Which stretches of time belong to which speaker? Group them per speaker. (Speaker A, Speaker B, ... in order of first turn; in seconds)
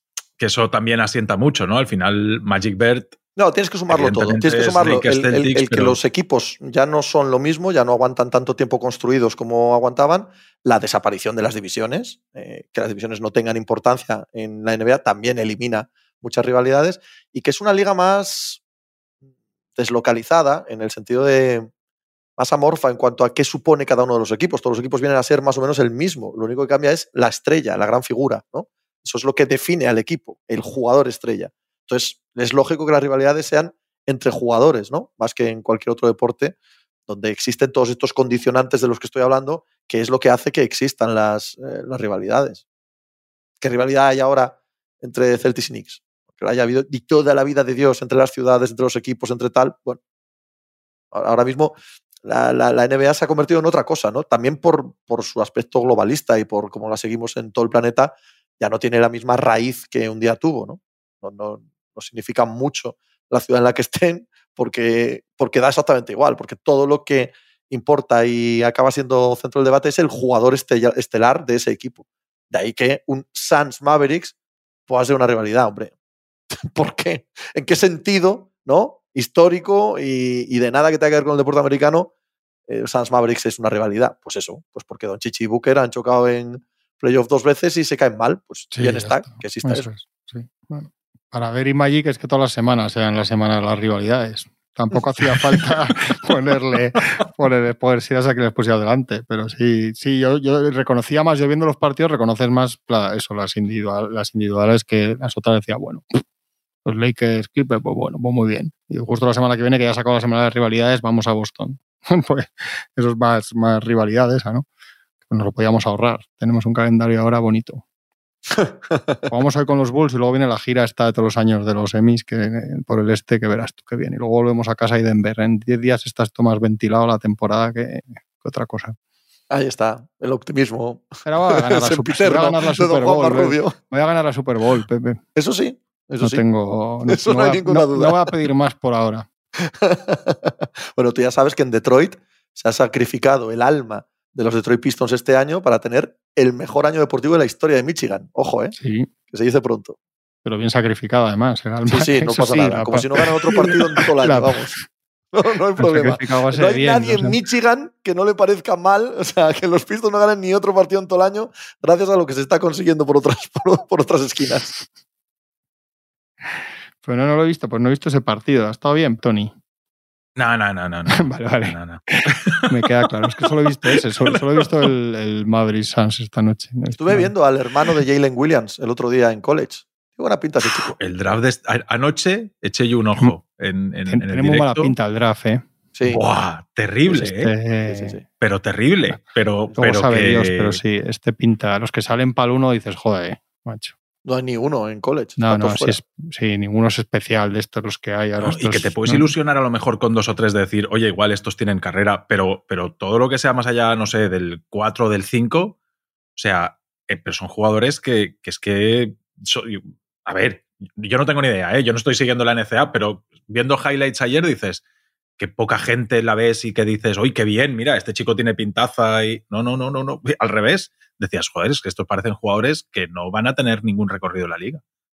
Speaker A: 0.4-3.1, 3.9-6.0, 170.3-174.9, 180.7-184.9, 186.1-187.5, 188.4-190.8, 198.4-205.8, 206.3-214.8, 215.4-224.8
Speaker B: 3.4-18.6, 19.8-21.7, 22.4-36.5, 37.1-42.6, 43.6-50.0, 51.1-74.3, 74.9-75.9, 76.5-82.1, 82.7-89.9, 118.5-119.2, 129.5-133.8, 135.3-136.4, 137.1-138.3, 139.6-148.7, 149.3-150.0, 151.9-154.7, 155.3-164.7, 176.9-180.9, 185.9-186.2, 187.9-188.2, 194.2-196.0
Speaker C: 88.7-106.2, 106.8-114.7, 115.2-117.8, 119.3-128.9, 131.2-135.2, 136.2-139.3, 148.8-149.1, 150.4-154.8, 155.8-157.4, 166.5-169.5, 171.2-177.3, 184.1-185.6, 187.2-188.2, 189.8-193.9, 195.4-199.3